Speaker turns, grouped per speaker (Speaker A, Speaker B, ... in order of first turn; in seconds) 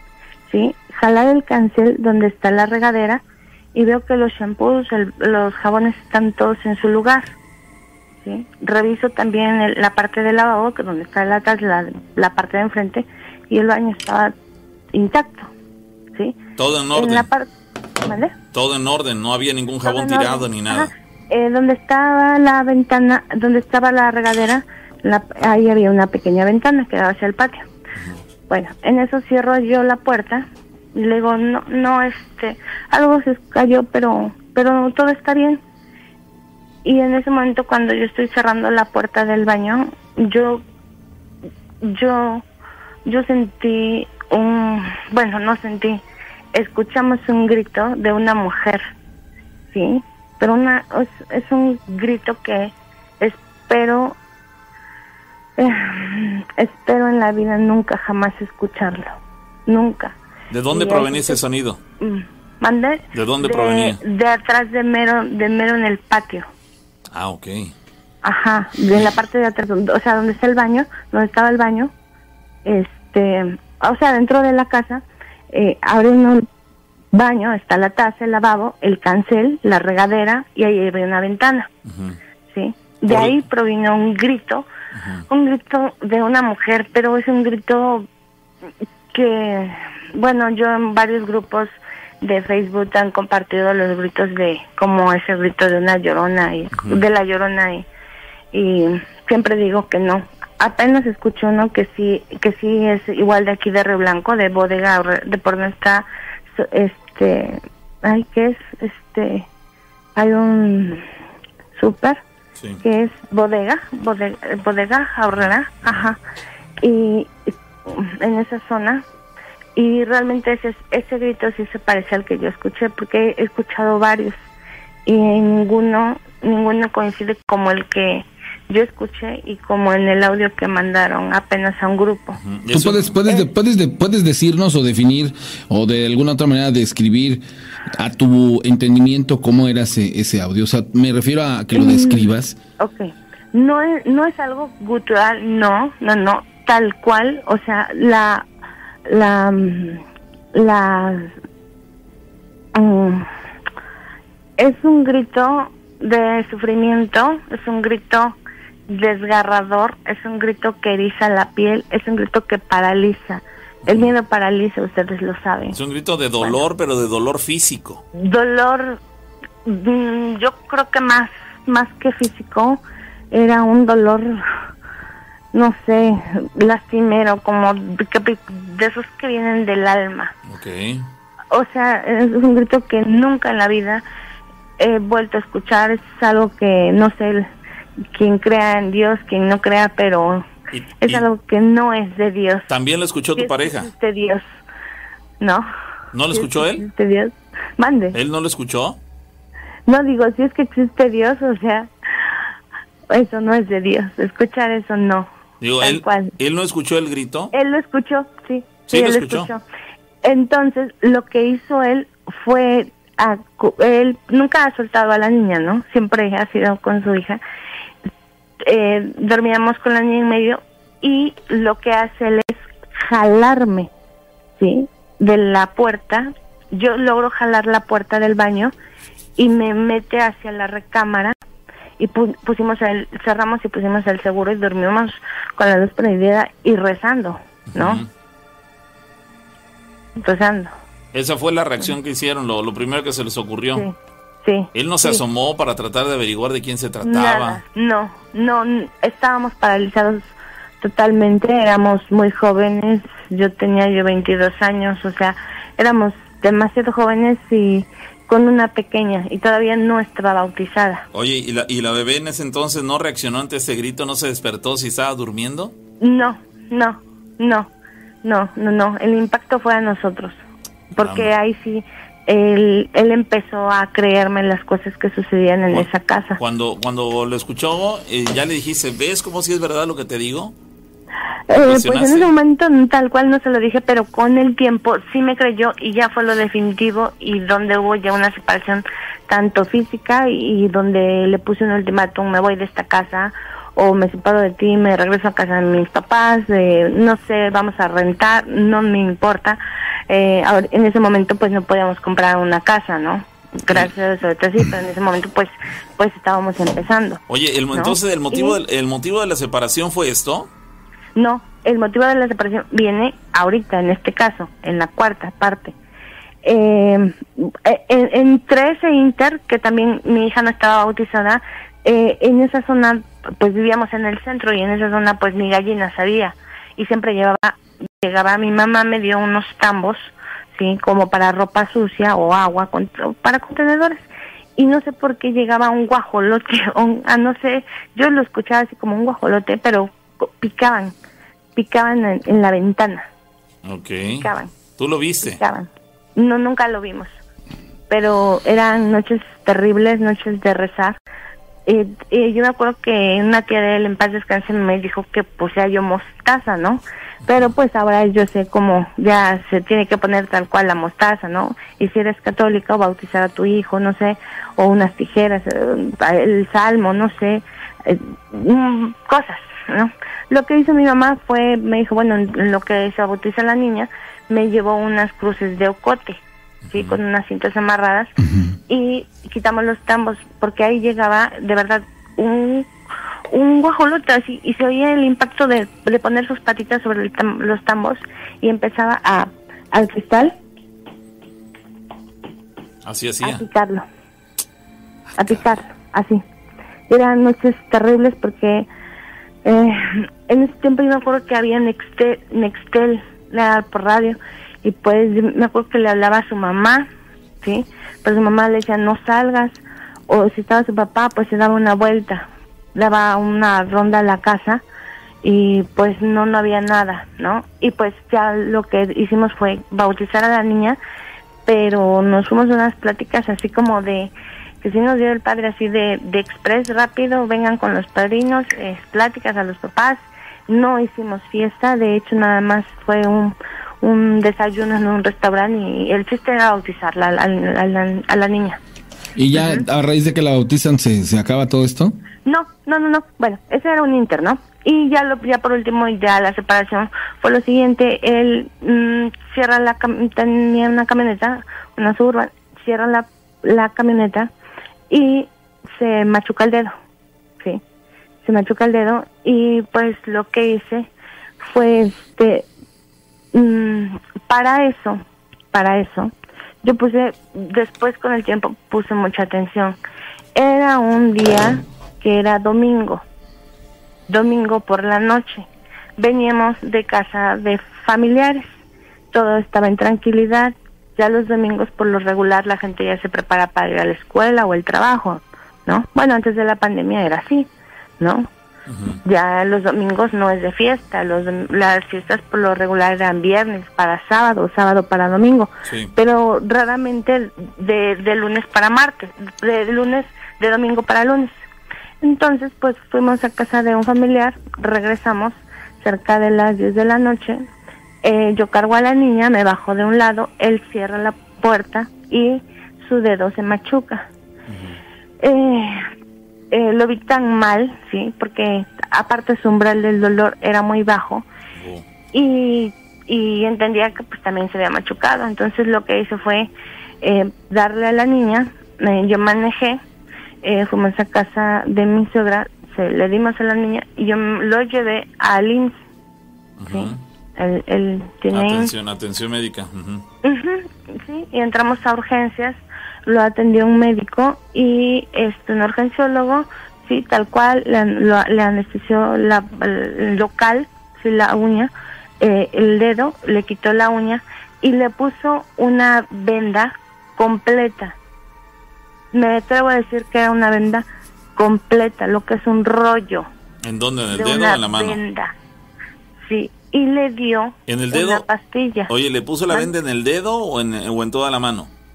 Speaker A: 0.5-3.2, 3.7-7.3, 8.2-14.3, 14.9-15.5, 16.9-17.5, 18.0-18.3, 19.9-27.7, 28.5-35.6, 36.8-40.6, 41.8-42.4, 43.1-46.0, 46.5-48.8, 49.7-54.2, 55.6-60.2, 60.7-61.4, 62.0-66.5, 68.2-71.9, 72.7-76.5, 77.1-81.7, 82.5-84.7, 85.3-88.1, 89.1-97.9, 98.5-106.1, 106.6-109.5, 110.2-111.0, 111.8-112.2, 112.8-116.2, 116.8-119.0, 119.8-124.4, 125.1-132.4, 141.8-142.3, 142.8-148.5, 149.1-151.3, 152.8-153.3, 154.6-158.4, 158.9-165.8, 168.1-169.0, 169.7-172.8, 173.3-174.4, 175.5-180.3, 181.5-184.0, 184.8-187.5, 188.1-190.5, 191.0-192.7, 193.4-194.4, 195.4-195.7, 196.3-198.2, 199.9-201.9, 203.1-205.3, 205.8-206.3, 207.5-209.6, 210.2-217.4, 218.6-223.9, 224.6-228.7, 229.4-231.4, 232.0-238.0, 240.2-240.7, 243.8-245.2, 247.0-261.1, 266.0-267.7, 268.2-270.4, 270.9-276.4, 281.5-307.2, 307.7-308.6, 311.2-315.8, 316.4-334.0, 334.6-340.9, 341.6-343.1, 344.2-344.5, 345.2-347.1, 347.9-351.0, 351.7-376.2, 376.7-378.1, 378.7-382.7, 383.3-390.4, 393.2-393.9, 395.2-396.2, 396.9-398.7, 399.4-406.9, 407.4-414.6, 415.2-420.8, 421.5-438.6, 442.3-454.3, 454.9-456.8, 458.2-460.9, 461.4-462.5, 463.3-466.1, 466.6-469.8, 470.4-473.0, 474.1-478.5, 479.1-487.5, 488.0-488.3, 489.0-501.3, 502.0-507.4, 508.0-514.1, 515.2-515.9, 516.5-521.2, 522.1-526.5, 527.0-529.8, 530.4-535.8, 536.7-538.7, 540.2-558.0, 559.1-560.9, 561.4-563.3, 564.1-565.3, 566.2-568.9
Speaker B: 16.6-17.3, 18.5-20.9, 28.0-28.2, 60.5-61.8, 63.1-64.0, 67.1-67.7, 81.9-82.2, 83.1-83.4, 85.0-85.3, 96.7-97.0, 112.6-112.8, 115.3-116.1, 132.4-133.2, 163.9-164.1, 165.7-168.0, 180.5-181.1, 190.7-191.3, 192.7-193.9, 196.1-196.9, 198.1-199.0, 205.6-207.5, 208.9-209.5, 237.7-238.1, 241.1-243.9, 244.7-247.6, 261.1-265.7, 271.0-271.3, 275.7-280.6, 281.6-282.3, 307.3-310.5, 343.6-345.4, 376.7-377.0, 392.9-393.4, 395.1-395.4, 488.7-489.0, 495.7-495.9, 514.5-514.8, 521.6-521.9, 536.6-537.0, 538.3-540.0, 563.6-565.0, 567.7-568.2, 568.9-571.7
Speaker C: 132.7-142.6, 378.2-378.6, 439.2-442.0